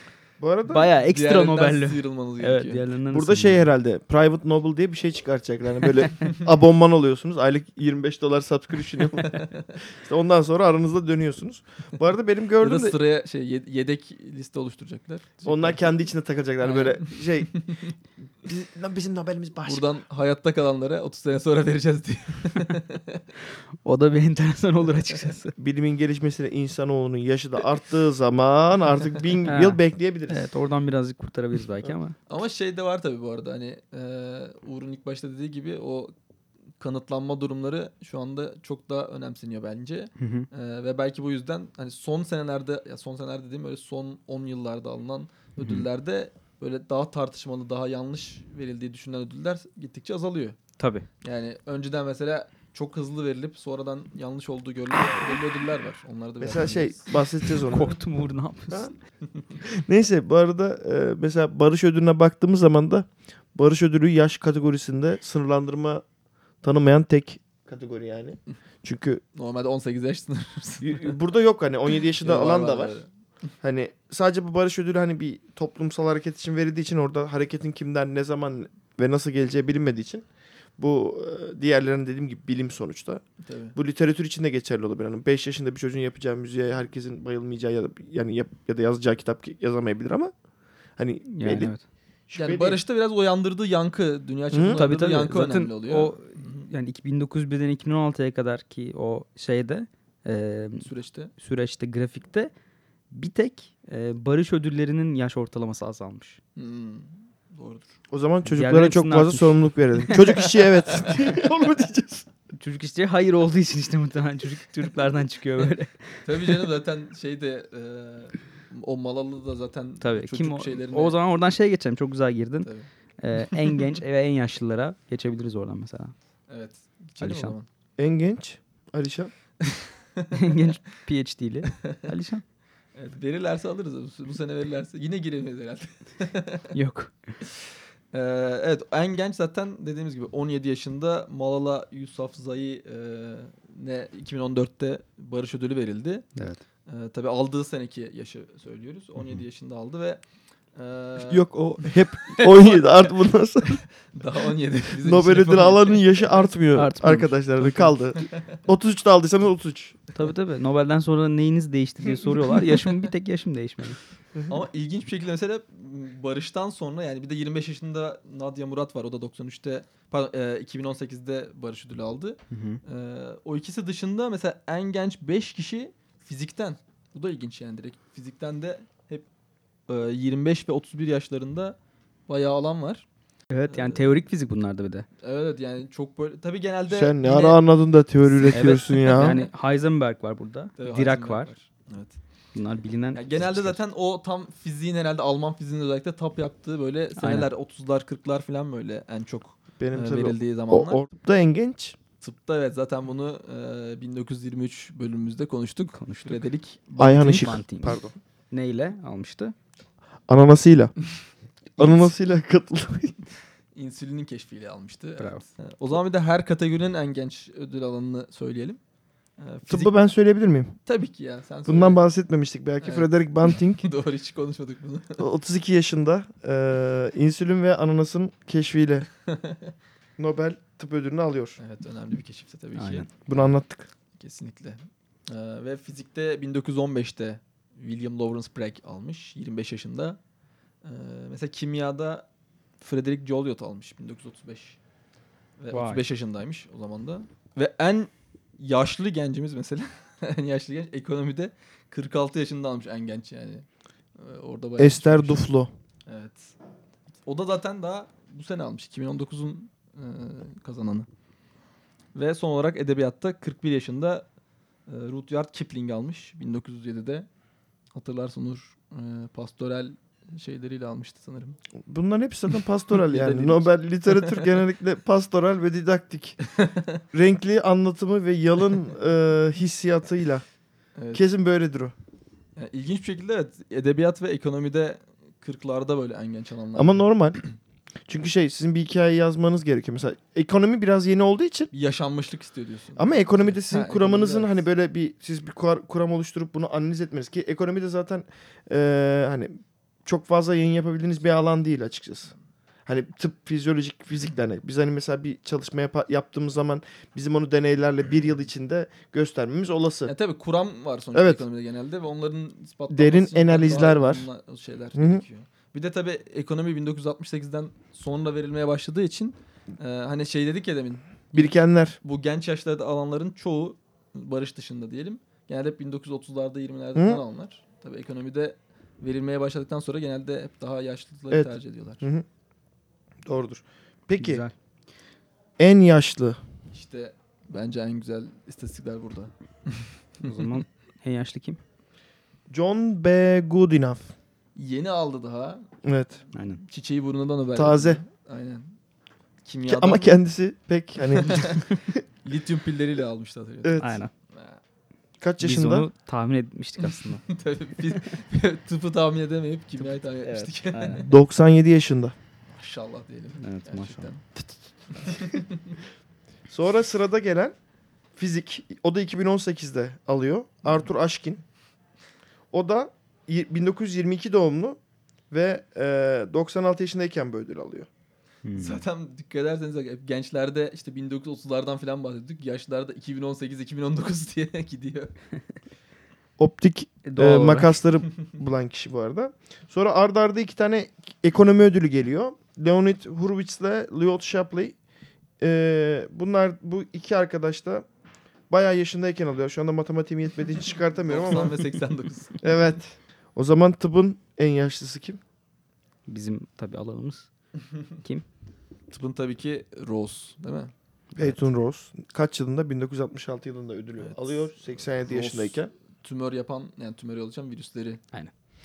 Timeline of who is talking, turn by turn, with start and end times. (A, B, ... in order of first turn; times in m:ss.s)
0:00.4-0:00.9 A
0:00.7-0:03.7 B
0:01.0-0:02.8 C
0:03.1-0:13.0 A
0:09.2-0:09.6 C
0:12.6-0:15.8 C
0:15.4-0:17.6 A
0:16.6-0:17.9 C
0:18.4-0:19.8 A
0:19.6-0:23.2 C
0:23.8-0:25.5 B
0:25.6-0:30.4 A
0:29.4-0:32.1 B
0:32.3-0:36.1 C
0:36.8-0:50.6 C
0:40.2-0:40.5 B
0:45.6-0:45.8 B
0:50.8-0:51.0 B
0:51.2-0:57.1 C
0:56.4-0:58.0 A
0:57.7-0:58.9 B
0:59.6-1:06.0 A
1:06.6-1:09.2 A
1:09.3-1:11.1 C
1:10.8-1:13.0 A
1:12.2-1:13.1 C
1:13.6-1:20.2 A
1:20.8-1:23.2 A
1:23.4-1:23.8 C
1:23.7-1:30.3 A
1:31.0-1:31.7 A
1:31.2-1:31.8 B
1:32.3-1:32.8 A
1:32.4-1:36.7 C
1:34.5-1:34.8 A
1:34.7-1:40.8 B
1:40.8-1:41.3 C
1:41.4-1:42.5 B
1:43.1-1:46.4 B
1:46.6-1:47.9 C
1:48.1-1:52.3 A
1:48.4-1:50.2 B
1:52.5-1:56.0 B
1:56.2-2:01.2 C
2:00.0-2:02.7 B
2:02.6-2:02.9 C
2:03.2-2:06.1 B
2:06.5-2:07.6 C
2:07.2-2:07.5 B
2:08.0-2:09.3 A
2:09.6-2:10.7 C
2:10.3-2:12.4 B
2:13.0-2:16.7 C
2:16.7-2:17.3 B
2:18.1-2:26.3 C
2:26.4-2:26.6 B
2:26.9-2:30.2 C
2:30.7-2:33.1 C
2:31.2-2:33.8 A
2:34.1-2:36.5 C
2:35.0-2:40.0 A
2:36.7-2:37.9 B
2:40.1-2:44.0 B
2:44.5-2:59.3 C
2:52.5-2:52.8 B
2:59.9-3:01.8 C
3:02.3-3:03.0 C
3:03.5-3:05.1 B
3:03.7-3:04.2 C
3:05.2-3:07.6 C
3:06.9-3:09.4 A
3:08.3-3:09.4 C
3:08.5-3:11.5 B
3:10.8-3:12.2 C
3:12.5-3:13.8 B
3:13.1-3:21.0 C
3:17.2-3:17.5 B
3:19.8-3:22.0 A
3:22.2-3:27.5 C
3:25.9-3:26.4 B
3:27.0-3:28.1 A
3:27.0-3:28.0 B
3:28.5-3:29.5 B
3:30.3-3:30.9 A
3:31.8-3:33.2 A
3:33.7-3:38.8 C
3:35.2-3:35.4 B
3:39.4-3:39.9 C
3:39.7-3:40.8 A
3:40.8-3:42.0 C
3:41.6-3:43.8 A
3:42.8-3:45.3 C
3:45.2-3:49.1 A
3:49.3-3:49.7 C
3:50.2-3:51.6 A
3:51.6-3:53.5 C
3:52.8-3:53.1 B
3:53.3-3:53.9 A
3:54.2-4:00.2 C
4:00.8-4:02.2 C
4:02.8-4:04.8 C
4:05.6-4:13.6 C
4:05.7-4:06.0 B
4:14.2-4:15.4 C
4:14.8-4:15.7 A
4:16.0-4:16.5 C
4:17.2-4:21.1 C
4:22.1-4:24.2 C
4:24.9-4:27.3 C
4:27.9-4:31.6 C
4:31.8-4:36.4 A
4:32.9-4:34.5 C
4:36.5-4:37.0 C
4:37.1-4:40.4 A
4:41.0-4:41.2 C
4:41.1-4:41.9 A
4:42.6-4:47.0 C
4:46.7-4:47.4 A
4:48.1-4:51.7 A
4:51.7-4:54.6 C
4:53.0-5:02.3 A
5:02.8-5:10.1 A
5:10.0-5:32.1 C
5:11.1-5:11.4 A
5:12.9-5:14.3 A
5:14.9-5:15.2 A
5:21.3-5:22.0 A
5:26.9-5:27.2 A
5:31.3-5:32.2 A
5:33.2-5:34.4 A
5:34.2-5:34.5 B
5:35.6-5:36.4 A
5:36.7-5:40.2 C
5:40.2-5:41.6 B
5:42.5-5:44.1 A
5:44.6-5:45.7 C
5:45.8-5:46.2 A
5:46.3-5:46.6 B
5:46.6-5:48.8 C
5:47.5-5:48.0 A
5:49.4-5:50.2 C
5:49.7-5:51.6 A
5:51.1-5:51.6 C
5:52.2-5:54.6 C
5:53.6-5:54.0 A
5:53.8-5:54.1 B
5:55.2-5:55.9 A
5:55.4-5:57.2 B
5:56.8-6:01.1 C
6:00.2-6:01.0 B
6:01.0-6:02.1 A
6:02.5-6:04.3 C
6:03.4-6:04.1 B
6:04.9-6:05.8 C
6:06.5-6:07.5 A
6:08.2-6:11.4 A
6:12.5-6:14.8 A
6:15.3-6:17.9 A
6:18.4-6:18.8 B
6:18.5-6:25.1 C
6:26.4-6:34.8 A
6:27.0-6:27.8 B
6:35.4-6:37.8 A
6:38.5-6:41.6 A
6:41.1-6:42.4 C
6:42.4-6:45.2 A
6:46.1-6:47.3 B
6:48.9-6:50.7 C
6:51.2-6:55.7 A
6:54.0-6:58.0 C